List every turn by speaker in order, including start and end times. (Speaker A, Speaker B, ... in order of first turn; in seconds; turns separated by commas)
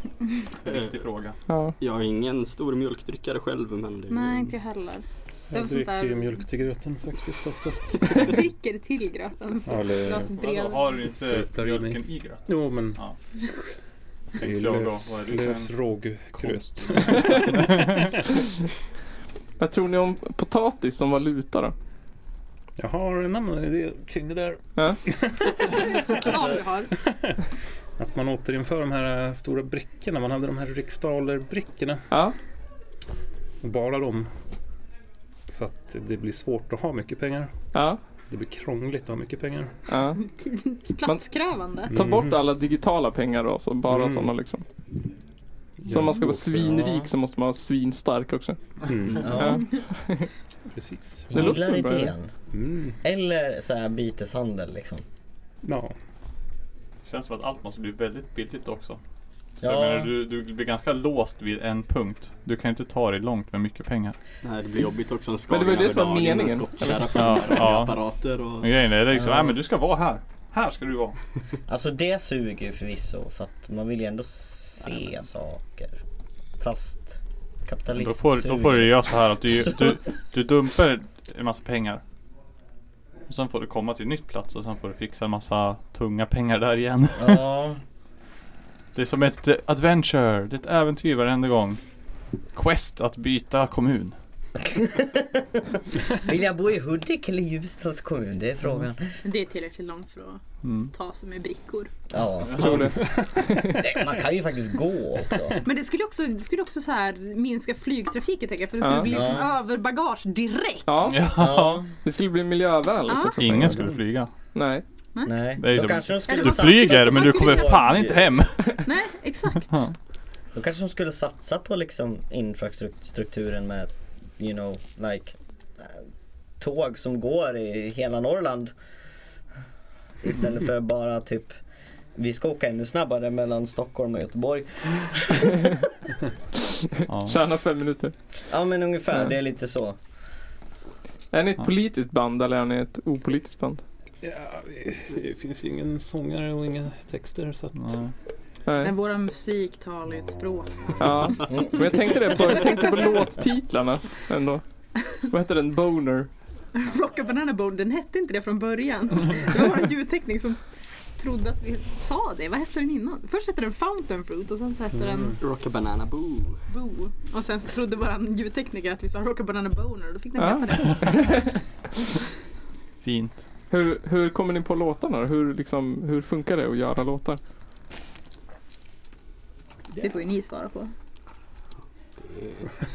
Speaker A: 0.6-1.4, Speaker B: 0.7-1.0, Speaker C: 1.5-1.7, Speaker B: 1.8-4.5, Speaker D: 4.1-6.5, Speaker E: 5.5-8.4, Speaker D: 8.1-10.9, Speaker E: 9.7-10.3, Speaker A: 10.3-13.1, Speaker E: 11.1-13.0, Speaker E: 14.4-17.9, Speaker A: 14.4-18.0, Speaker C: 19.6-21.7, Speaker E: 22.8-25.4, Speaker D: 25.6-26.9, Speaker E: 28.0-32.0, Speaker E: 33.6-34.3, Speaker E: 35.5-37.5, Speaker C: 37.7-38.0, Speaker E: 38.3-39.7, Speaker C: 39.9-40.2, Speaker D: 40.1-41.9, Speaker E: 41.9-42.4, Speaker C: 41.9-44.6, Speaker E: 43.9-44.3, Speaker E: 45.8-46.8, Speaker C: 45.9-48.6, Speaker E: 48.9-49.4, Speaker F: 49.2-49.6, Speaker C: 49.3-50.3, Speaker E: 50.7-51.3, Speaker F: 51.3-52.3, Speaker C: 51.3-52.1, Speaker E: 52.5-53.0, Speaker F: 53.0-55.0, Speaker E: 55.6-55.9, Speaker A: 57.1-59.0, Speaker F: 59.6-60.1, Speaker A: 59.6-64.2, Speaker B: 64.4-68.7, Speaker C: 65.5-67.5, Speaker A: 67.1-68.0, Speaker A: 68.6-71.2, Speaker F: 69.1-69.5, Speaker F: 71.7-76.0, Speaker F: 76.6-79.0, Speaker A: 77.9-82.0, Speaker F: 79.5-80.0, Speaker A: 83.3-87.4, Speaker F: 87.2-87.8, Speaker A: 88.9-91.8, Speaker A: 92.5-94.1, Speaker F: 94.7-95.4, Speaker F: 96.2-99.1, Speaker D: 99.2-101.9, Speaker A: 100.6-100.9, Speaker F: 102.1-102.9, Speaker A: 102.5-102.9, Speaker C: 102.5-103.9, Speaker F: 103.8-105.6, Speaker D: 105.6-111.1, Speaker C: 108.8-109.2, Speaker F: 109.1-109.5, Speaker C: 110.9-111.4, Speaker A: 111.1-111.8, Speaker F: 111.3-111.8, Speaker C: 112.0-113.9, Speaker D: 113.1-113.4, Speaker A: 113.4-114.3, Speaker E: 113.7-114.0, Speaker C: 114.5-114.8, Speaker F: 115.2-118.2, Speaker A: 115.6-118.8, Speaker D: 116.2-118.0, Speaker D: 118.8-119.7, Speaker F: 120.5-126.0, Speaker F: 126.6-128.7, Speaker F: 130.2-131.6, Speaker F: 132.2-135.6, Speaker A: 137.1-137.4, Speaker C: 137.2-138.1, Speaker F: 138.5-140.0, Speaker C: 141.3-143.8, Speaker E: 144.2-148.0, Speaker A: 147.8-148.1, Speaker C: 148.7-148.9, Speaker D: 148.8-151.7, Speaker C: 151.0-154.6, Speaker D: 152.3-153.0, Speaker C: 155.2-156.3, Speaker D: 156.7-160.6, Speaker D: 161.2-165.3, Speaker E: 165.0-165.3, Speaker B: 165.4-166.6, Speaker D: 166.7-171.4, Speaker C: 170.4-171.6, Speaker A: 173.0-173.4, Speaker C: 173.7-177.4, Speaker D: 180.0-180.9, Speaker B: 182.2-182.7